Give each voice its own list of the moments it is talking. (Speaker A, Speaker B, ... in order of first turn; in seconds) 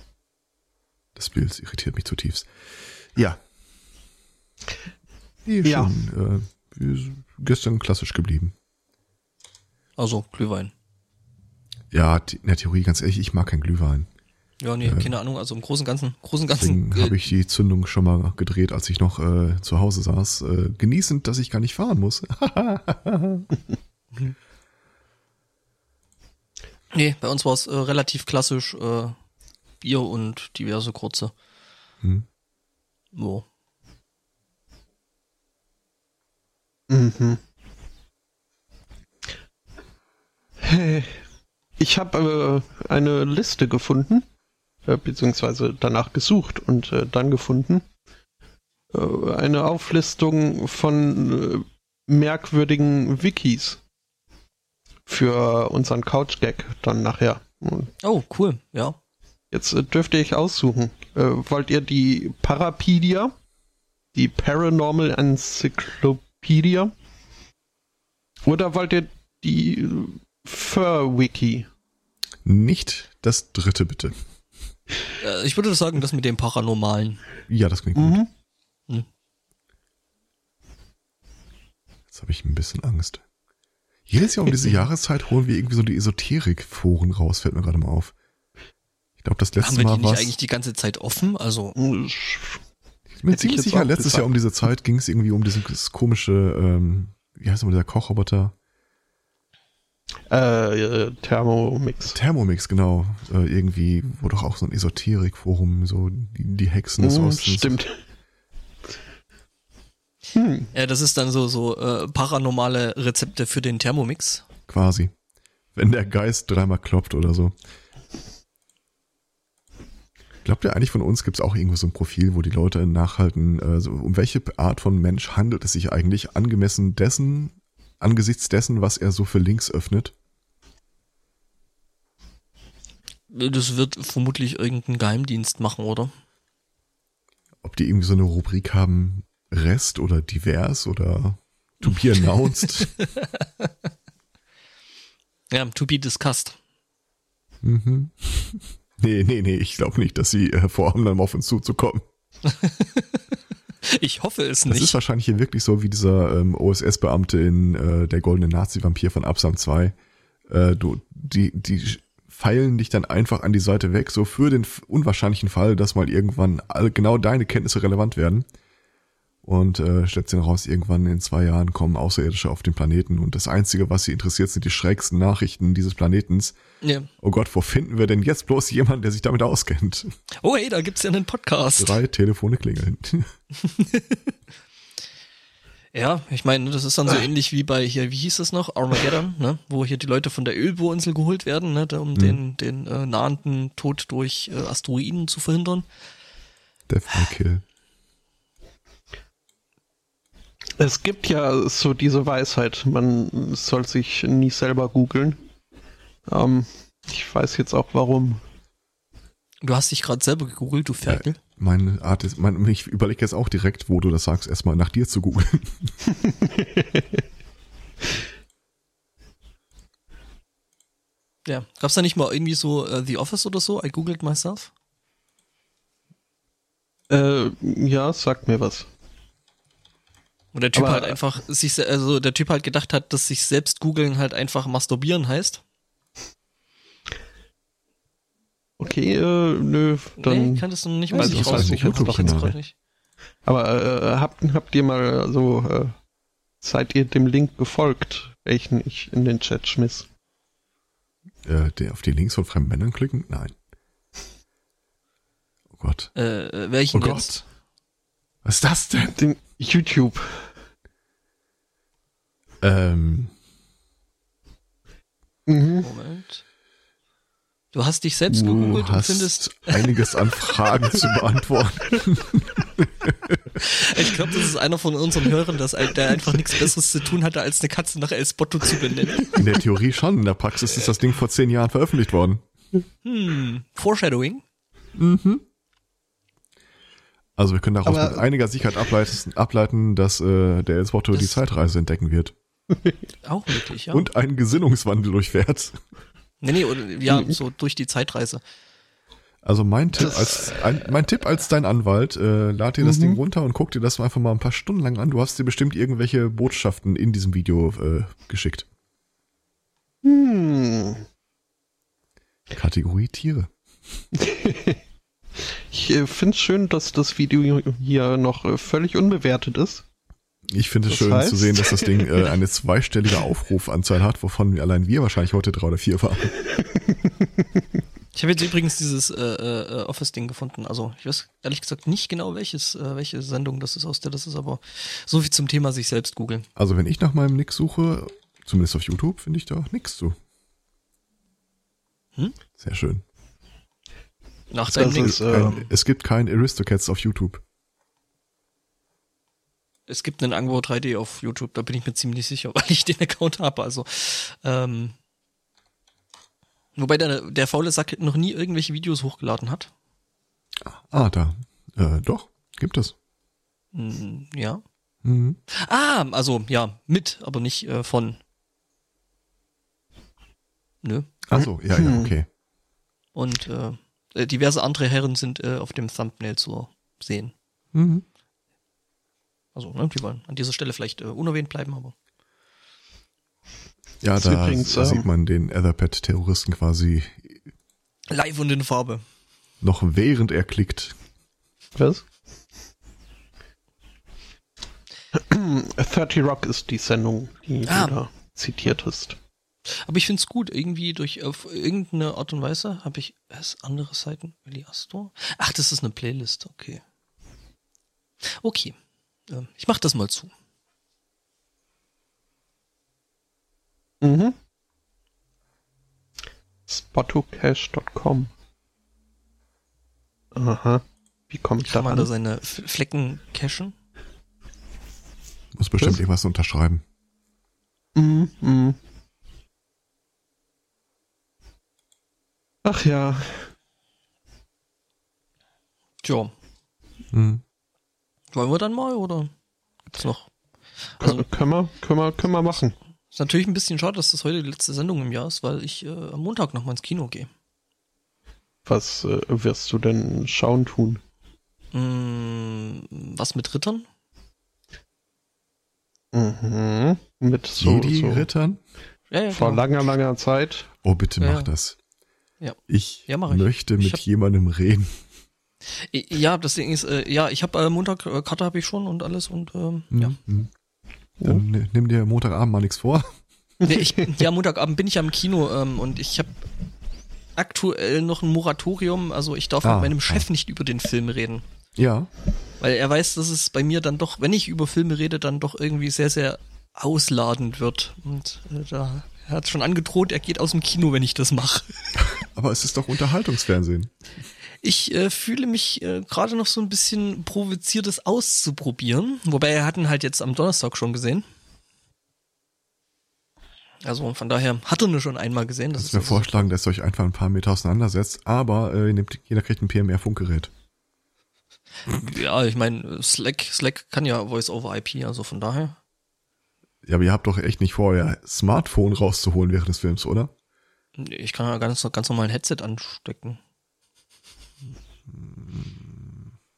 Speaker A: 1.2-3.4, 5.5-8.5, 11.9-14.1, 14.8-15.1, 16.6-23.5, 72.5-74.2, 77.5-78.2, 82.1-83.2, 84.1-88.1, 89.2-90.3, 93.2-98.5, 102.1-107.8, 114.7-115.1, 115.8-117.5, 120.5-130.1, 137.6-142.9, 147.6-152.0, 154.7-159.9, 160.5-168.5, 169.4-176.6, 177.2-180.1, 181.8-183.3, 196.9-197.6, 211.0-215.9, 241.2-242.6, 251.5-253.5, 255.7-256.1, 256.9-257.3, 258.4-259.2, 262.6-263.3, 268.3-273.6, 279.3-282.4, 285.0-285.4, 287.4-292.3, 293.9-295.8, 299.4-308.7, 312.5-313.5, 320.5-326.4, 336.6-340.2, 342.6-343.0, 344.8-347.4, 360.6-362.9, 365.0-365.4, 371.3-372.3, 377.7-378.0, 384.0-387.4, 389.6-391.0, 425.6-426.8, 437.1-437.4, 457.6-458.6, 460.8-461.8, 462.7-464.9, 469.9-470.5, 471.2-473.1, 479.6-480.3, 481.8-482.1, 492.0-493.9, 505.8-510.5, 516.9-520.3, 525.1-526.1
Speaker B: 5.6-5.9, 36.9-37.4, 40.6-41.2, 41.8-44.3, 44.9-47.9, 48.9-53.8, 55.1-57.9, 59.5-63.4, 64.1-66.9, 68.4-71.7, 78.0-78.3, 91.8-92.6, 93.3-94.3, 100.3-102.2, 107.0-108.0, 110.3-110.7, 200.8-205.4, 206.3-208.4, 216.2-217.2, 227.1-228.9, 230.7-231.2, 238.8-242.5, 243.4-245.9, 246.6-250.1, 259.1-260.5, 265.5-265.9, 276.1-276.7, 278.9-279.4, 287.9-288.2, 297.1-297.4, 300.0-300.4, 302.8-303.2, 310.0-311.1, 314.1-314.8, 315.4-319.9, 320.9-322.1, 326.6-327.4, 344.7-345.6, 371.8-372.1, 384.2-385.1, 391.8-392.1, 395.1-399.2, 414.0-414.4, 416.7-418.3, 420.3-422.1, 427.9-428.8, 432.6-433.5, 441.0-442.8, 448.7-451.0, 456.1-458.3, 459.3-460.7, 473.6-474.1
Speaker C: 10.0-10.7, 14.6-17.1, 26.9-29.2, 29.8-31.3, 33.1-33.5, 58.0-59.0, 75.2-77.2, 89.6-91.8, 110.7-114.5, 133.3-136.1, 141.9-143.7, 145.5-146.6, 152.4-155.0, 176.8-177.1, 180.4-182.0, 183.6-184.2, 185.9-195.8, 209.6-211.4, 221.5-224.7, 230.5-235.6, 240.2-242.7, 256.1-257.4, 265.8-266.4, 267.7-270.0, 273.6-279.4, 283.0-284.4, 293.2-294.1, 296.4-298.4, 328.1-336.5, 344.5-345.7, 349.9-354.9, 356.8-359.7, 363.7-364.6, 365.5-368.2, 370.8-371.1, 373.1-377.3, 379.6-381.9, 388.1-389.0, 397.7-398.0, 399.7-406.8, 408.4-408.8, 409.3-410.3, 421.6-423.8, 436.0-436.3, 438.3-439.3, 439.9-440.3, 440.9-441.2, 443.1-447.3, 451.7-453.9, 459.1-459.6, 461.2-461.5, 462.4-464.0, 465.7-470.2, 473.6-476.3, 477.4-481.4, 482.6-492.0, 494.6-501.2, 503.8-506.5, 511.9-515.8, 521.0-523.4